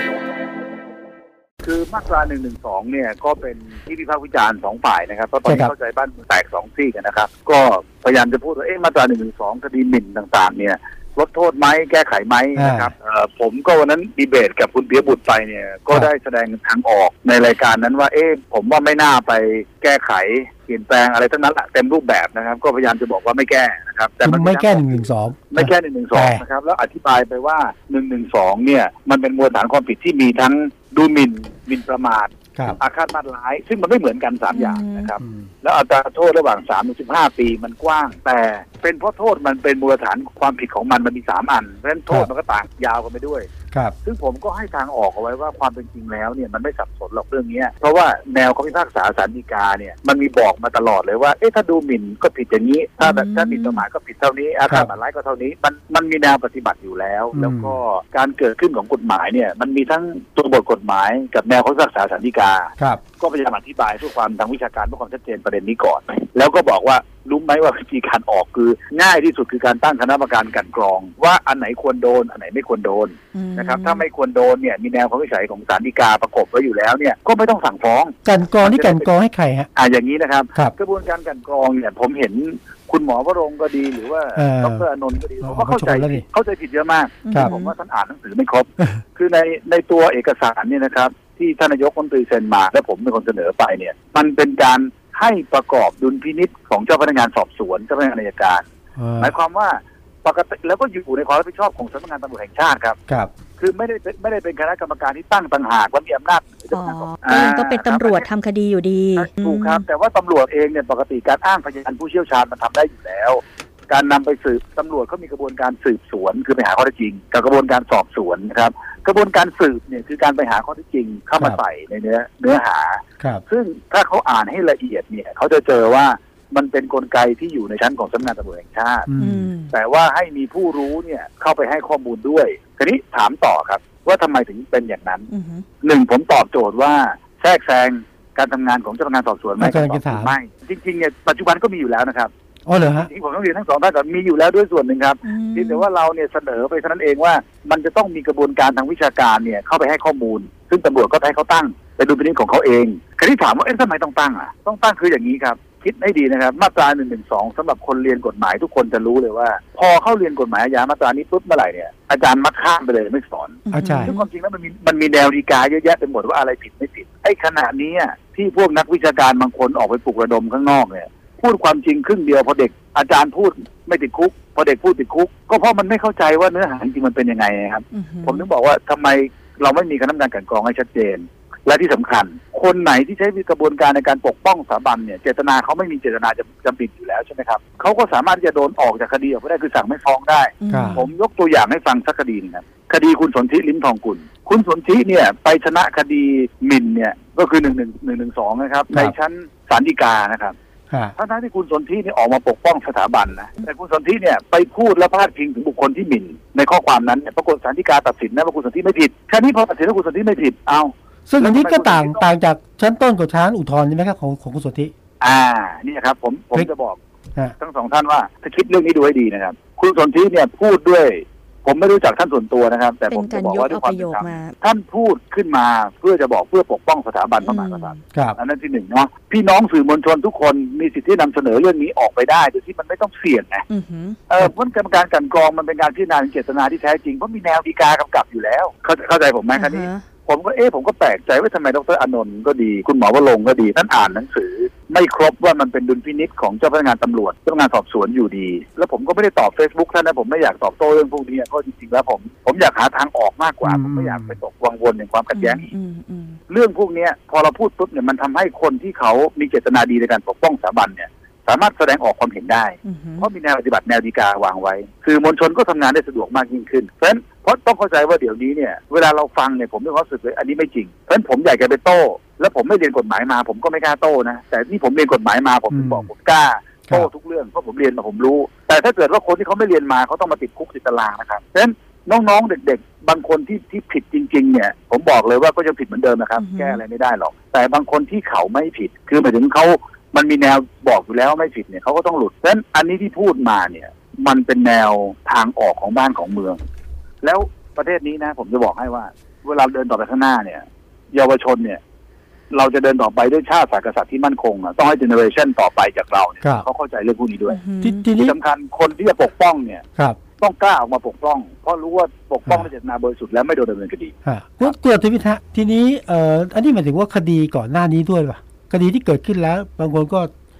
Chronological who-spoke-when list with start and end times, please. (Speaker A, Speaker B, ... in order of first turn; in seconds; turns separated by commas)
Speaker A: 1.6-43.5, Speaker B: 5.5-5.7, Speaker B: 12.6-12.9, Speaker B: 24.2-26.4, Speaker C: 34.5-35.1, Speaker B: 35.2-35.5, Speaker A: 44.0-79.1, Speaker C: 53.0-53.8, Speaker B: 57.3-57.8, Speaker C: 73.3-74.0, Speaker B: 78.2-79.7, Speaker A: 79.8-98.6, Speaker B: 84.3-84.8, Speaker B: 85.4-86.2, Speaker C: 87.2-87.7, Speaker B: 99.0-99.3, Speaker A: 99.2-103.0, Speaker A: 103.6-108.3, Speaker C: 106.7-109.8, Speaker A: 109.2-129.1, Speaker B: 129.1-129.5, Speaker C: 129.2-129.7, Speaker A: 129.7-135.3, Speaker C: 135.3-135.6, Speaker A: 135.8-142.3, Speaker B: 139.6-140.3, Speaker B: 142.7-143.1, Speaker A: 142.8-200.5, Speaker C: 145.2-145.8, Speaker C: 163.7-164.3, Speaker B: 163.7-164.1, Speaker C: 177.9-178.4, Speaker C: 190.6-191.1, Speaker B: 190.7-191.0, Speaker A: 201.2-212.2, Speaker B: 211.3-214.9, Speaker A: 215.2-217.0, Speaker A: 217.6-233.6, Speaker C: 223.1-224.5, Speaker C: 227.4-228.0, Speaker C: 233.7-234.2, Speaker A: 234.3-255.7, Speaker C: 239.5-240.0, Speaker B: 253.6-254.4, Speaker C: 255.3-256.4, Speaker A: 256.5-296.6, Speaker C: 262.8-263.3, Speaker B: 275.7-276.1, Speaker C: 286.3-286.8, Speaker A: 297.2-301.8, Speaker A: 302.5-307.6, Speaker C: 307.5-308.1, Speaker B: 307.8-308.3, Speaker A: 308.1-309.8, Speaker A: 310.4-314.7, Speaker B: 314.2-320.3